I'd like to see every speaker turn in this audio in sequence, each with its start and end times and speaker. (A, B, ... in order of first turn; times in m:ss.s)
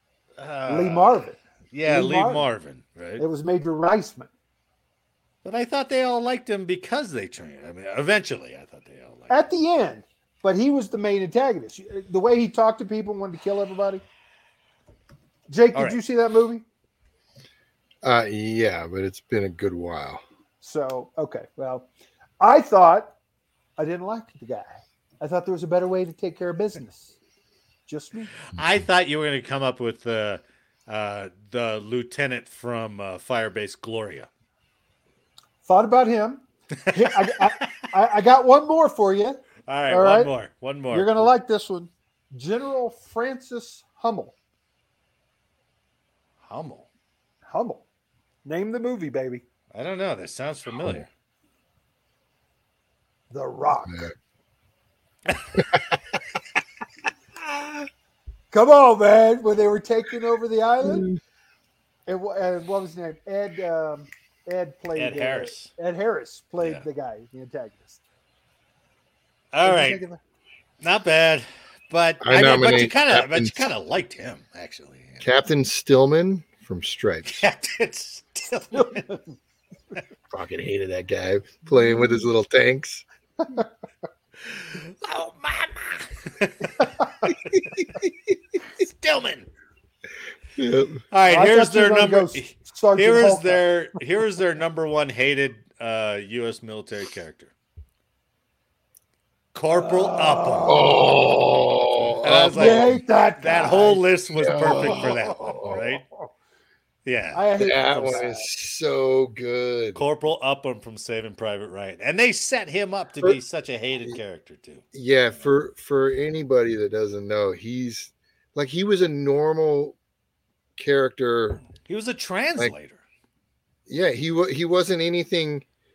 0:00.4-0:03.2 A
0:00.7-0:02.5 B
0:03.2-0:04.3 B
0:05.4-0:09.4 A
0:09.3-0:14.0 B
0:15.5-0:16.6 B
0:18.0-0:20.2 C
0:20.6-0:21.9 B
0:22.4-0:23.1 B
0:23.8-0:27.2 B
0:27.9-0:28.3 B
0:28.5-0:34.3 A
0:35.6-0:40.3 B
0:36.8-0:37.7 A
0:39.7-0:41.3 A
0:40.9-0:44.3 B
0:46.4-0:46.9 A
0:47.5-0:47.8 B
0:48.4-0:49.4 B
0:49.7-0:51.1 A
0:53.3-0:54.1 B
0:55.3-0:55.7 A
0:58.5-1:01.1 B
1:00.8-1:01.2 C
1:02.1-1:08.0 B
1:04.9-1:05.7 A
1:09.5-1:10.0 A
1:09.6-1:10.2 B
1:10.8-1:15.2 A
1:12.2-1:13.7 C
1:15.2-1:17.4 C
1:17.3-1:19.1 A
1:18.7-1:19.2 B
1:20.3-1:23.0 C
1:24.4-1:29.5 A
1:30.6-1:31.0 C
1:31.1-1:37.5 A
1:31.2-1:33.6 B
1:39.5-1:40.9 A
1:39.7-1:41.2 B
1:40.7-1:43.0 C
1:42.2-1:46.0 A
1:42.5-1:46.3 B
1:44.4-1:45.8 C
1:47.0-1:47.4 A
1:47.3-1:48.5 B
1:47.6-1:50.0 C
1:49.9-1:54.8 A
1:54.9-2:00.0 C
2:00.8-2:01.6 C
2:01.8-2:03.0 A
2:03.9-2:05.6 C